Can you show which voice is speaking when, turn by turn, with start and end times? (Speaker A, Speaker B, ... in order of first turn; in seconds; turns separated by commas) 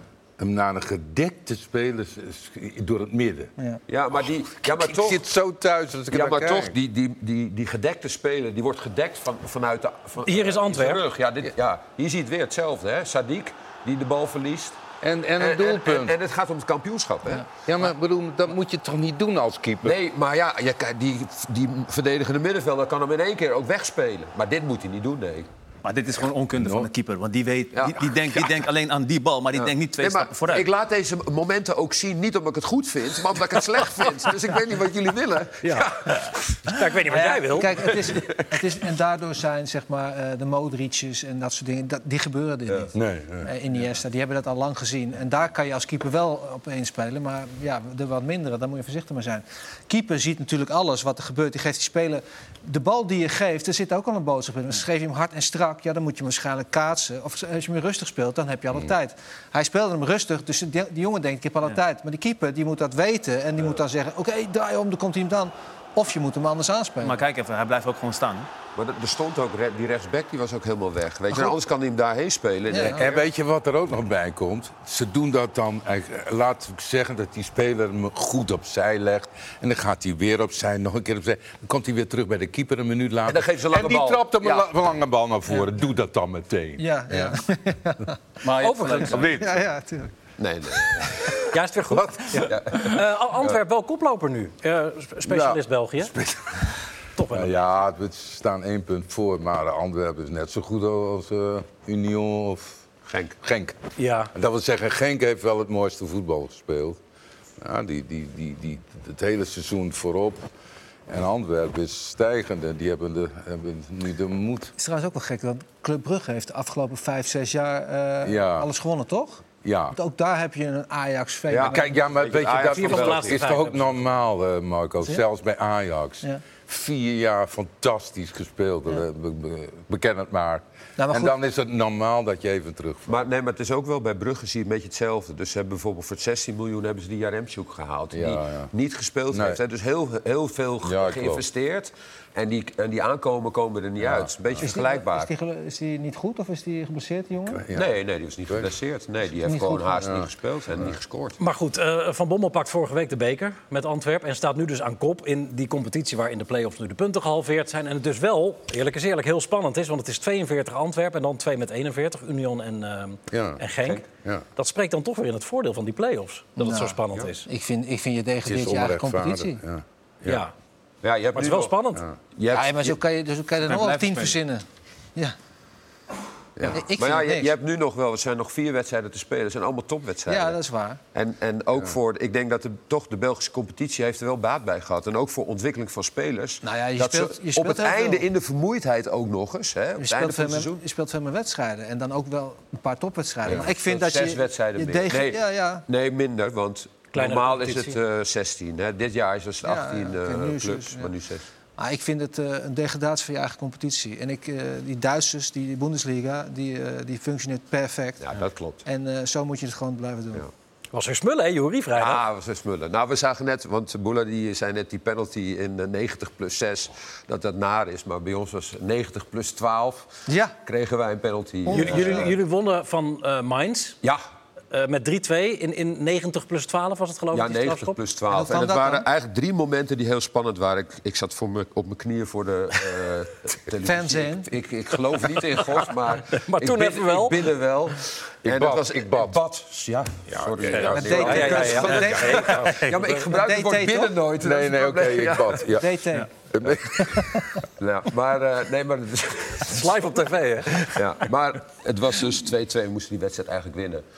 Speaker A: 0.4-3.5, Speaker B: 3.9-5.2, Speaker A: 4.6-6.7, Speaker B: 6.1-14.8, Speaker C: 10.2-11.0, Speaker A: 15.0-16.1, Speaker B: 15.4-17.5, Speaker A: 17.7-20.0, Speaker B: 19.8-25.5, Speaker D: 25.9-30.7, Speaker A: 26.6-26.9, Speaker B: 27.7-28.2, Speaker B: 29.6-36.6, Speaker C: 35.6-37.7, Speaker E: 37.1-67.2, Speaker B: 38.0-38.5, Speaker A: 43.0-43.5, Speaker D: 67.0-68.5, Speaker B: 68.8-73.2, Speaker E: 72.7-73.0, Speaker A: 72.9-87.4, Speaker B: 83.3-84.7, Speaker E: 86.8-88.2, Speaker D: 88.4-89.3, Speaker C: 88.6-89.2, Speaker A: 89.1-89.7, Speaker E: 89.3-90.1, Speaker B: 90.4-91.4, Speaker C: 91.5-96.1, Speaker A: 91.9-92.5, Speaker B: 92.5-93.0, Speaker A: 95.3-96.8, Speaker C: 97.2-97.5, Speaker A: 97.3-102.9, Speaker B: 103.1-103.4, Speaker A: 103.4-103.8, Speaker C: 104.0-104.3, Speaker A: 104.3-107.0, Speaker A: 107.6-110.5, Speaker A: 111.1-114.7, Speaker E: 114.8-122.0, Speaker A: 118.2-118.7, Speaker A: 119.6-120.0, Speaker B: 121.5-123.4, Speaker A: 121.6-133.1, Speaker C: 122.7-123.8, Speaker E: 131.0-131.3, Speaker B: 133.1-145.3, Speaker A: 138.1-138.7, Speaker A: 139.3-139.6, Speaker A: 140.8-141.4, Speaker A: 144.0-144.7, Speaker E: 144.6-147.7, Speaker A: 147.5-147.9, Speaker B: 147.7-151.4, Speaker E: 149.4-150.0, Speaker A: 150.0-150.3, Speaker C: 151.4-164.0, Speaker A: 163.3-163.6, Speaker C: 164.6-167.5, Speaker E: 166.6-169.6, Speaker A: 168.4-170.4, Speaker C: 170.3-170.5, Speaker B: 171.0-171.7, Speaker C: 171.3-172.0, Speaker B: 172.4-173.0, Speaker E: 172.5-174.6, Speaker D: 173.6-174.4, Speaker B: 176.6-180.6, Speaker E: 176.7-177.5, Speaker E: 180.3-181.0, Speaker B: 181.1-190.8, Speaker E: 186.6-188.3, Speaker E: 190.0-195.8, Speaker B: 193.4-201.5, Speaker C: 197.1-198.0, Speaker E: 199.6-201.1, Speaker E: 201.8-208.3, Speaker B: 208.2-208.8, Speaker E: 208.8-210.4, Speaker C: 210.9-212.2, Speaker B: 212.0-220.1, Speaker E: 220.3-220.6, Speaker B: 220.7-222.3, Speaker E: 221.7-222.3, Speaker C: 221.7-224.0, Speaker C: 224.7-228.0, Speaker B: 227.3-245.7, Speaker E: 228.3-229.1, Speaker E: 233.8-234.5, Speaker C: 236.3-237.5, Speaker A: 238.4-239.4, Speaker A: 240.3-242.4, Speaker C: 240.9-243.1, Speaker E: 241.0-244.2, Speaker A: 244.4-246.0, Speaker E: 245.7-246.3, Speaker A: 246.5-247.6, Speaker E: 247.1-247.6, Speaker B: 247.8-249.8, Speaker C: 249.7-251.1, Speaker B: 251.0-254.0